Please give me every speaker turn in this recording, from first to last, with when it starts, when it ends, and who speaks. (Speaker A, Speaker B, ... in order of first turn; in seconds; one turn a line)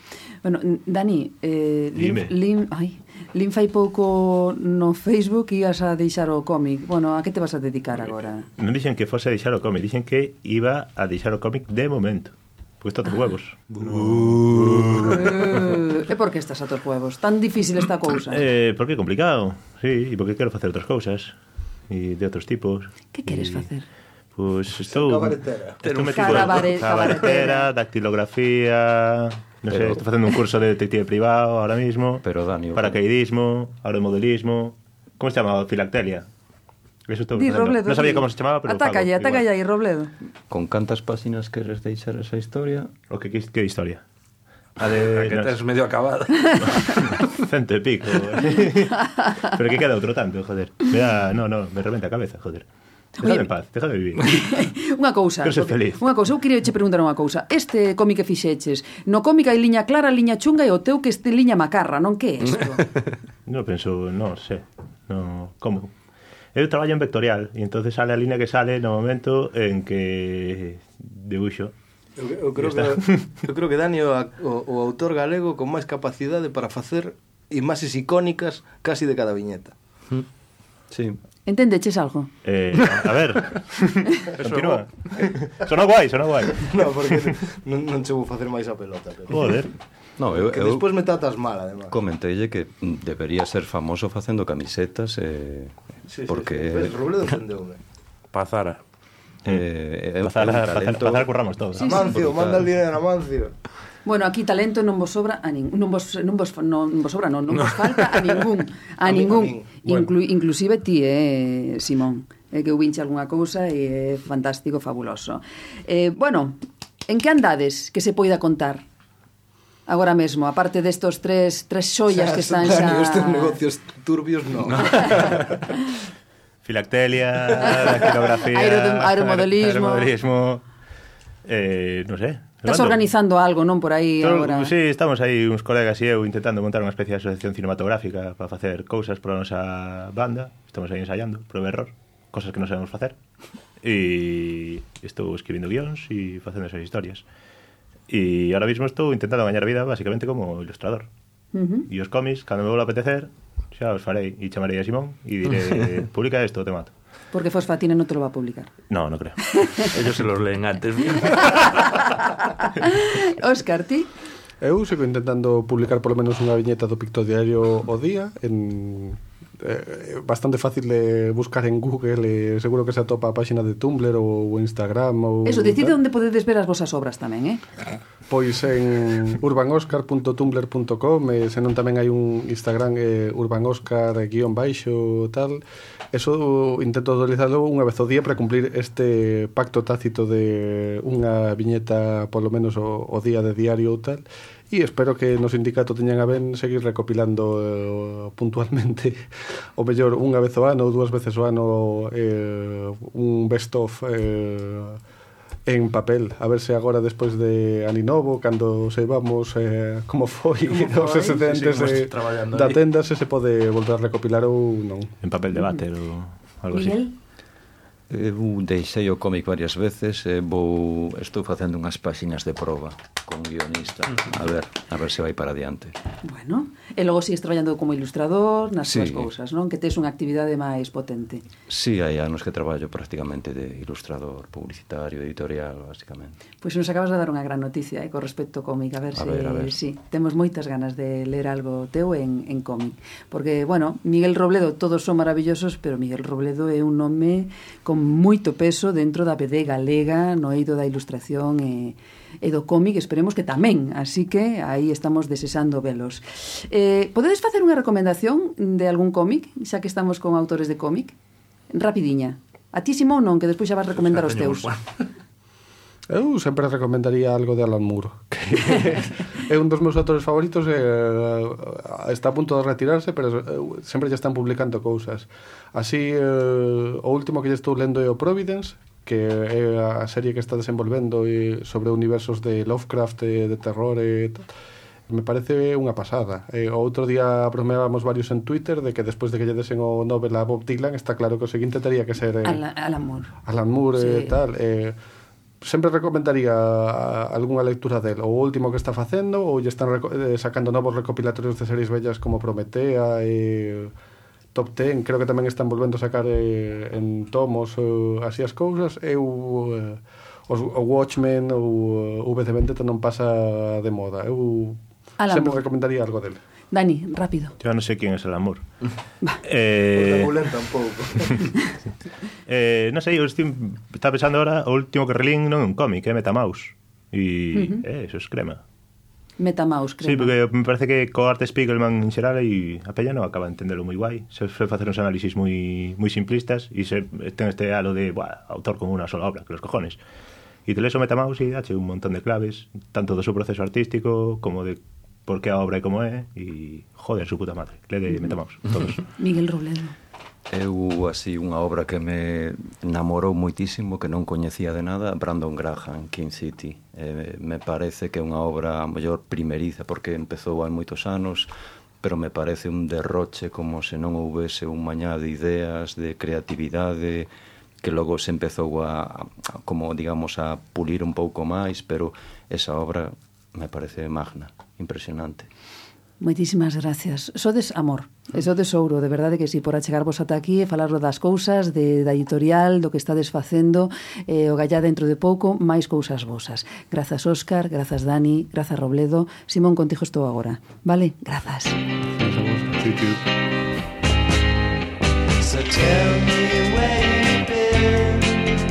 Speaker A: 0.4-8.4
Speaker B: 1.9-2.3
Speaker B: 8.6-15.6
Speaker C: 13.8-15.1
Speaker A: 15.1-18.4
Speaker B: 18.3-21.4
Speaker B: 21.9-23.7
Speaker A: 23.1-23.9
Speaker B: 24.3-32.2
Speaker C: 24.9-25.8
Speaker D: 25.8-26.6
Speaker A: 26.1-27.7
Speaker E: 29.7-30.1
Speaker E: 32.2-33.0
Speaker B: 32.7-36.3
Speaker B: 37.0-39.5
Speaker A: 37.3-40.1
Speaker E: 40.5-42.9
Speaker B: 43.1-44.0
Speaker B: 44.8-45.6
Speaker D: 44.8-47.2
Speaker B: 46.6-52.6
Speaker B: 53.2-54.7
Speaker A: 53.2-53.5
Speaker A: 54.2-62.9
Speaker B: 55.4-56.0
Speaker B: 63.5-65.9
Speaker B: 66.5-71.7
Speaker C: 72.2-79.7
Speaker B: 72.6-73.3
Speaker E: 80.9-81.2
Speaker A: 81.5-82.3
Speaker B: 82.4-87.3
Speaker D: 84.4-84.8
Speaker C: 86.6-89.6
Speaker B: 89.3-89.7
Speaker E: 90.2-90.9
Speaker C: 90.3-91.9
Speaker E: 91.9-97.0
Speaker C: 96.1-97.8
Speaker D: 98.3-98.8
Speaker E: 99.5-102.7
Speaker B: 100.2-102.0
Speaker C: 101.8-103.5
Speaker A: 101.8-102.1
Speaker A: 104.0-118.8
Speaker C: 109.0-110.1
Speaker A: 119.9-123.6
Speaker C: 122.1-125.4
Speaker B: 126.6-130.6
Speaker A: 127.6-130.1
Speaker B: 131.4-133.0
Speaker A: 132.6-134.7
Speaker B: 134.2-143.2
Speaker B: 143.8-147.2
Speaker B: 148.1-151.1
Speaker A: 151.5-151.9
Speaker B: 151.9-156.9
Speaker A: 157.3-158.7
Speaker B: 158.9-159.9
Speaker A: 159.4-159.9
Speaker D: 159.9-161.9
Speaker A: 161.2-164.1
Speaker F: 164.6-176.0
Speaker A: 175.4-177.6
Speaker F: 178.3-185.6
Speaker F: 186.1-199.2
Speaker F: 199.8-205.0
Speaker F: 205.7-215.1
Speaker D: 210.7-212.8
Speaker B: 215.2-217.0
Speaker A: 215.5-215.8
Speaker A: 216.7-217.1
Speaker E: 218.1-225.9
Speaker A: 226.2-231.4
Speaker E: 228.8-229.3
Speaker E: 231.7-236.4
Speaker A: 236.6-261.1
Speaker E: 239.1-239.7
Speaker A: 261.7-264.7
Speaker D: 264.0-264.8
Speaker F: 266.1-284.5
Speaker F: 285.1-292.6
Speaker A: 292.4-293.4
Speaker F: 293.4-294.9
Speaker A: 293.9-294.4
Speaker F: 295.6-303.9
Speaker F: 304.5-316.4
Speaker A: 315.2-315.6
Speaker A: 316.7-317.5
Speaker B: 317.6-318.6
Speaker B: 319.4-320.3
Speaker C: 319.9-321.4
Speaker B: 322.4-328.6
Speaker A: 327.5-327.8
Speaker A: 329.4-330.3
Speaker B: 330.0-340.0
Speaker B: 340.6-349.0
Speaker A: 349.2-349.9
Speaker E: 350.5-361.5
Speaker E: 362.0-367.3
Speaker E: 367.8-375.5
Speaker A: 376.2-391.8
Speaker F: 392.1-393.2
Speaker G: 395.4-398.5